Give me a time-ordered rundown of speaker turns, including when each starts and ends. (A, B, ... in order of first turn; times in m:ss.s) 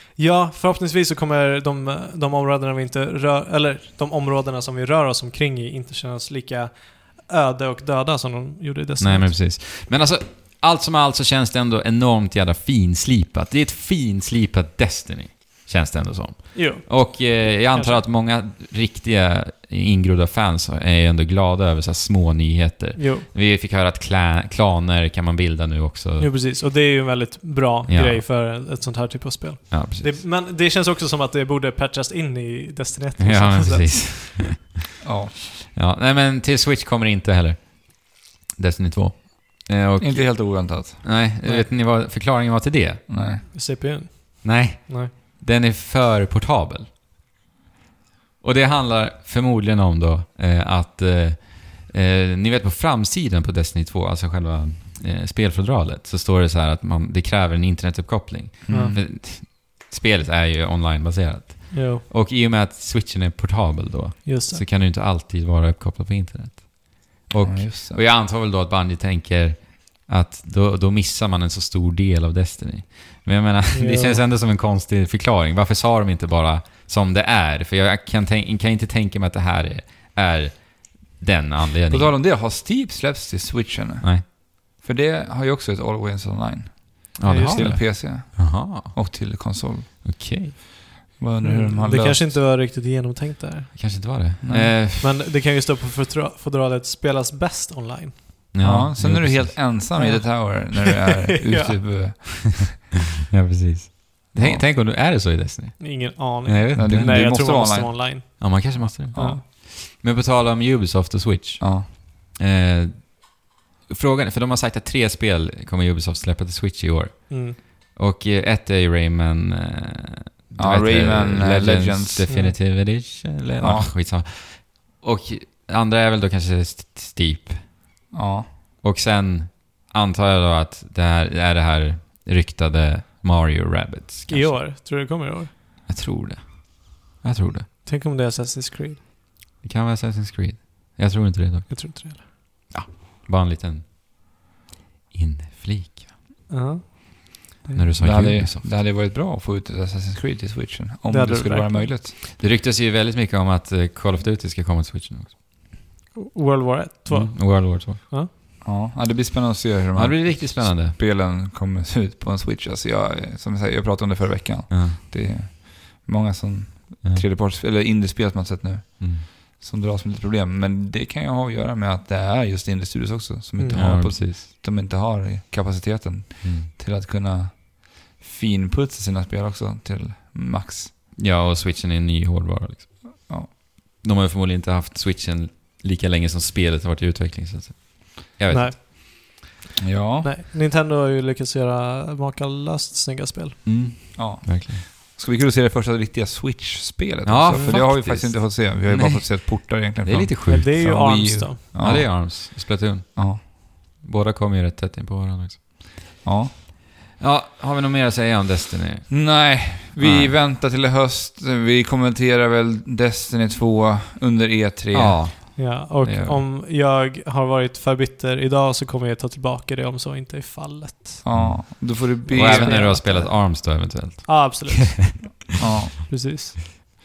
0:00.2-0:09.4 A
0:09.0-0:26.3 B
0:16.5-0:18.0 A
0:23.0-0:23.3 A
0:26.2-0:34.6 A
0:27.9-0:28.2 B
0:29.7-0:30.2 B
0:33.2-0:34.8 B
0:35.0-0:35.3 C
0:35.6-0:43.5 B
0:40.0-0:41.0 C
0:41.4-0:41.7 A
0:43.1-0:43.4 C
0:43.5-0:45.1 A
0:44.4-0:46.9 B
0:48.4-1:22.1 B
0:58.6-0:59.0 C
0:58.7-0:58.9 A
1:01.7-1:02.0 A
1:04.2-1:04.6 A
1:07.4-1:08.0 C
1:13.7-1:14.2 A
1:21.9-1:29.9 C
1:27.2-1:29.5 B
1:27.2-1:27.9 A
1:30.0-1:30.5 B
1:31.2-1:32.4 C
1:31.4-1:34.0 A
1:33.7-1:35.1 B
1:34.4-1:34.7 C
1:35.0-1:38.3 A
1:38.5-1:39.8 B
1:38.6-1:42.8 C
1:39.9-1:41.8 A
1:43.3-1:47.2 B
1:44.4-1:44.6 C
1:45.8-1:49.4 A
1:46.7-1:48.0 C
1:48.2-2:07.7 B
1:49.1-1:49.4 C
1:51.6-1:51.9 C
1:57.3-1:57.6 A
2:00.6-2:02.3 C
2:02.3-2:02.6 A
2:03.6-2:03.9 C
2:08.1-2:08.5 C
2:08.8-2:14.6 B
2:14.3-2:15.5 A
2:15.9-2:17.7 B
2:17.8-2:19.0 A
2:19.6-2:23.9 B
2:21.7-2:22.3 A
2:25.1-2:26.2 B
2:26.5-2:27.9 A
2:27.7-2:28.7 B
2:28.0-2:32.2 C
2:31.1-2:31.9 A
2:32.2-2:35.4 B
2:36.1-2:38.3 A
2:37.1-2:38.0 B
2:38.6-3:00.9 C
2:40.0-2:41.0 B
2:44.7-2:45.0 B
2:49.0-2:49.2 B
2:53.6-2:54.0 A
2:53.7-2:54.5 B
2:56.4-2:56.7 B
3:01.2-3:08.8 B
3:08.5-3:09.6 A
3:09.8-3:10.3 C
3:10.2-3:13.8 A
3:13.6-3:14.8 B
3:14.1-3:22.5 C
3:17.2-3:20.9 B
3:17.5-3:17.8 A
3:20.5-3:21.6 A
3:21.7-3:25.8 B
3:23.2-3:23.4 C
3:26.2-3:26.5 C
3:27.2-3:30.3 B
3:29.1-3:35.6 C
3:34.9-3:36.4 B
3:35.6-3:41.2 A
3:41.2-3:43.2 C
3:41.3-3:45.4 B
3:42.2-3:43.6 A
3:44.2-3:46.6 A
3:45.6-3:46.0 C